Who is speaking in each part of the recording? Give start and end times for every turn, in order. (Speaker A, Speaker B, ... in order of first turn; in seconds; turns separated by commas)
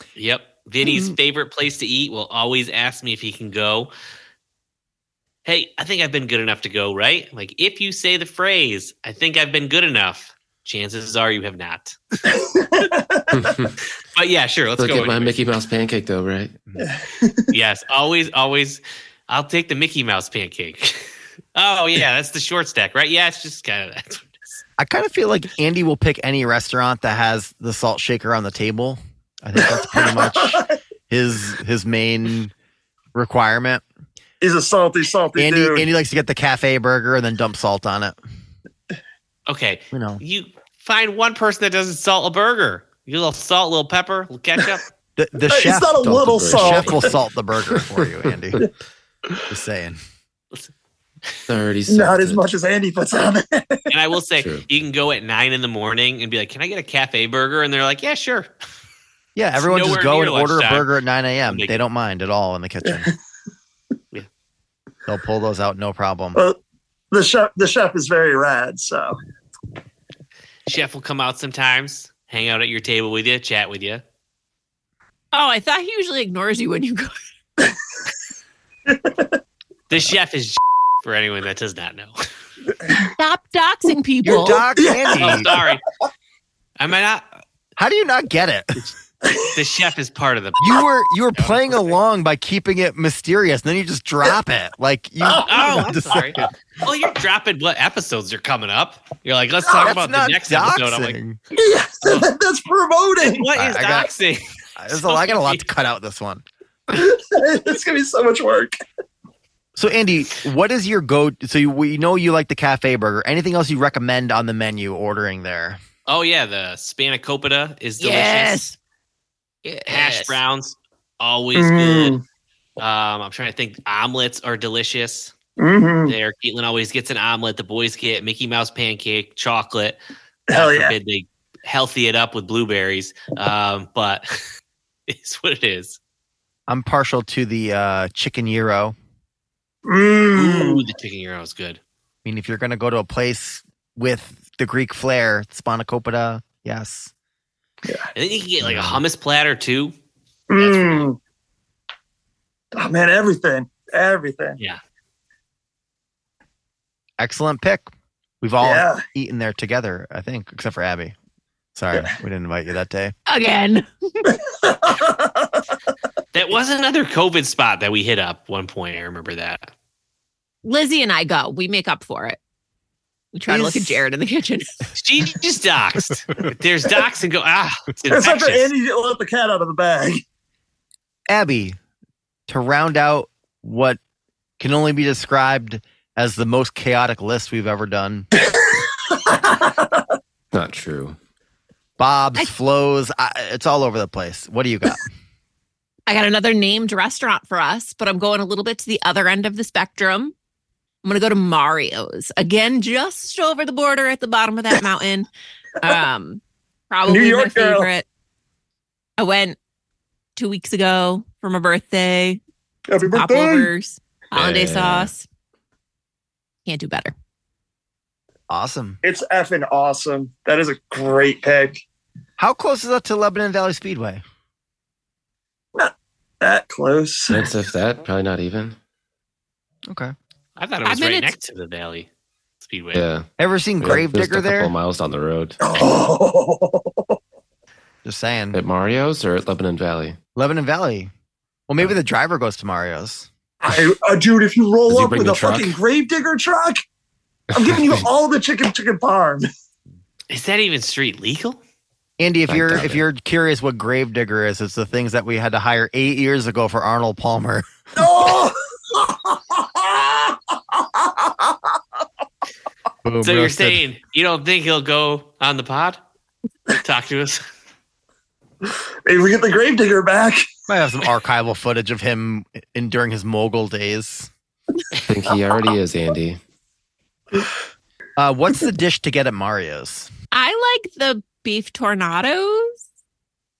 Speaker A: 0.2-3.9, Speaker B: 0.9-1.1, Speaker A: 5.5-12.0, Speaker C: 12.2-13.4, Speaker D: 13.3-13.8, Speaker A: 14.1-15.3, Speaker D: 14.8-16.6, Speaker C: 16.8-17.5, Speaker A: 17.5-24.3, Speaker B: 24.8-32.5, Speaker C: 29.9-30.8, Speaker B: 33.1-33.8, Speaker C: 34.4-35.9, Speaker B: 35.4-38.2, Speaker A: 39.5-44.9, Speaker B: 39.9-40.2, Speaker B: 45.2-48.6, Speaker C: 45.5-47.1, Speaker D: 46.0-47.1, Speaker B: 49.5-50.0, Speaker D: 51.5-52.4, Speaker C: 51.9-53.9, Speaker A: 53.9-58.5, Speaker D: 54.4-54.7, Speaker B: 59.4-63.1, Speaker A: 59.6-60.9, Speaker C: 62.9-63.1, Speaker B: 65.1-66.4, Speaker C: 67.1-69.2, Speaker A: 70.7-74.0, Speaker E: 75.3-77.2, Speaker C: 78.9-79.3, Speaker A: 79.9-82.2, Speaker E: 83.2-84.7, Speaker B: 84.2-85.5, Speaker C: 84.3-85.7, Speaker A: 85.2-85.8, Speaker A: 86.8-87.3, Speaker B: 87.8-88.9, Speaker A: 89.5-92.0, Speaker B: 90.6-96.5, Speaker C: 95.3-95.9, Speaker A: 95.4-101.2, Speaker B: 99.8-101.4, Speaker C: 101.5-103.5, Speaker A: 103.2-105.7, Speaker B: 103.5-104.1, Speaker B: 104.8-106.4, Speaker C: 106.9-108.8, Speaker B: 109.8-115.8, Speaker A: 116.1-118.7, Speaker E: 118.0-118.8, Speaker E: 119.6-120.4, Speaker A: 119.9-122.2, Speaker C: 121.5-122.2, Speaker A: 122.8-125.3, Speaker C: 125.6-126.2, Speaker A: 126.1-130.0, Speaker C: 130.5-130.9, Speaker A: 130.5-134.4, Speaker A: 135.1-136.0, Speaker B: 136.7-139.0, Speaker C: 139.8-140.8, Speaker A: 140.3-141.8, Speaker B: 142.2-147.1, Speaker A: 148.2-149.9, Speaker B: 148.6-149.0, Speaker C: 150.5-151.2, Speaker A: 150.6-151.1, Speaker C: 152.8-154.6, Speaker B: 157.2-157.9, Speaker B: 158.4-161.2, Speaker C: 158.6-159.0, Speaker B: 161.8-163.1, Speaker E: 163.3-164.4, Speaker C: 164.5-165.6, Speaker A: 166.3-169.7, Speaker E: 170.6-172.4, Speaker E: 173.3-174.8, Speaker B: 173.5-174.0, Speaker A: 175.0-178.7, Speaker C: 178.1-180.2, Speaker B: 181.3-181.8, Speaker B: 182.5-184.0, Speaker B: 184.6-188.3, Speaker C: 188.4-190.0, Speaker D: 190.5-191.2, Speaker B: 192.0-195.0, Speaker E: 196.1-200.3, Speaker E: 201.0-205.3, Speaker E: 205.8-208.1, Speaker C: 207.1-207.9, Speaker E: 209.2-209.6, Speaker E: 210.4-212.4, Speaker C: 212.9-213.7, Speaker E: 213.1-215.3, Speaker D: 214.3-215.1, Speaker E: 216.7-217.1, Speaker B: 218.5-219.0, Speaker C: 219.0-221.8, Speaker B: 222.4-224.2, Speaker C: 225.8-227.5, Speaker D: 227.3-228.8, Speaker B: 229.9-230.1, Speaker A: 230.6-232.1, Speaker E: 230.8-231.3, Speaker A: 232.6-233.1, Speaker D: 232.9-233.3, Speaker B: 233.4-234.7, Speaker D: 233.8-235.6, Speaker C: 235.6-237.2, Speaker B: 238.1-238.6, Speaker D: 238.5-240.2, Speaker B: 240.4-241.1, Speaker B: 241.7-243.3, Speaker C: 243.6-246.8, Speaker D: 244.9-245.8, Speaker D: 247.5-248.0, Speaker C: 247.5-249.5, Speaker A: 250.3-251.6, Speaker B: 252.2-257.7, Speaker D: 252.5-253.0, Speaker C: 258.0-261.8, Speaker B: 263.0-263.8, Speaker A: 263.2-266.0, Speaker A: 266.8-267.4, Speaker C: 269.1-270.4, Speaker B: 270.7-274.3, Speaker D: 275.1-276.4, Speaker B: 278.2-280.1, Speaker E: 280.3-282.8